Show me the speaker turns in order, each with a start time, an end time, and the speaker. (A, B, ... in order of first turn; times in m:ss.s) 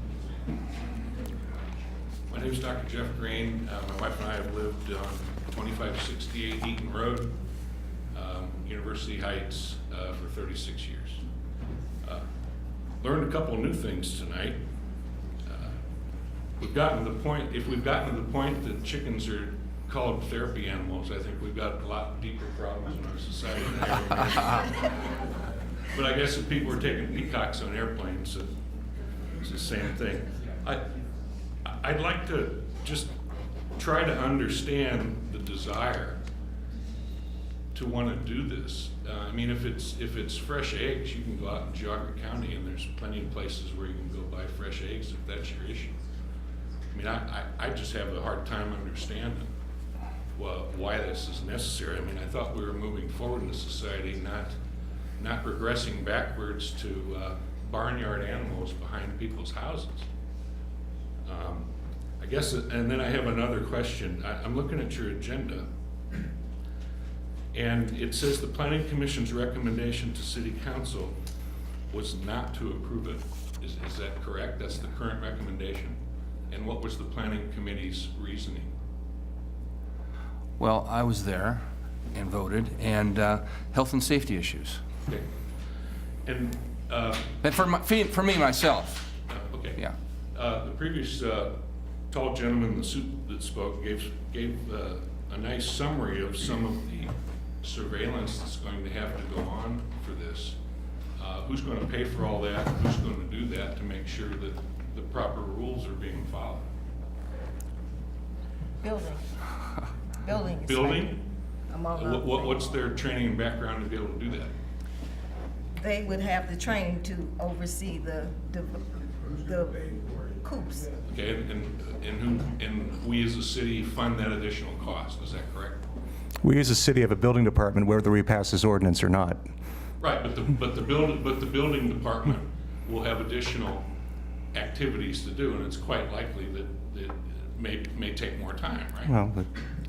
0:02.3-0:07.3 A
0:08.1-0:11.2 A
0:13.0-0:14.6 A
0:15.5-0:15.7 A
0:16.6-0:25.0 A
0:25.9-0:28.5 A
0:29.4-0:30.8 A
0:31.7-0:33.1 A
0:33.8-0:36.2 A
0:37.7-0:45.9 A
0:46.9-0:49.5 A
0:50.4-0:54.6 A
0:55.2-1:00.1 A
1:01.2-1:01.7 A
1:02.2-1:05.7 A
1:07.5-1:11.2 A
1:11.9-1:16.0 A
1:16.5-1:18.7 A
1:20.6-1:24.9 B
1:26.2-1:27.3 A
1:27.4-1:29.1 B
1:29.3-1:29.8 A
1:30.3-1:31.6 A
1:32.1-1:40.6 A
1:41.2-1:46.6 A
1:48.8-1:49.2 C
1:50.2-1:51.2 C
1:50.6-1:51.2 A
1:51.7-1:52.7 C
1:51.9-1:54.5 A
1:55.8-1:59.9 C
2:00.4-2:00.9 C
2:01.1-2:05.8 A
2:06.4-2:09.4 D
2:10.0-2:13.9 A
2:14.5-2:19.1 A
2:19.0-2:19.5 D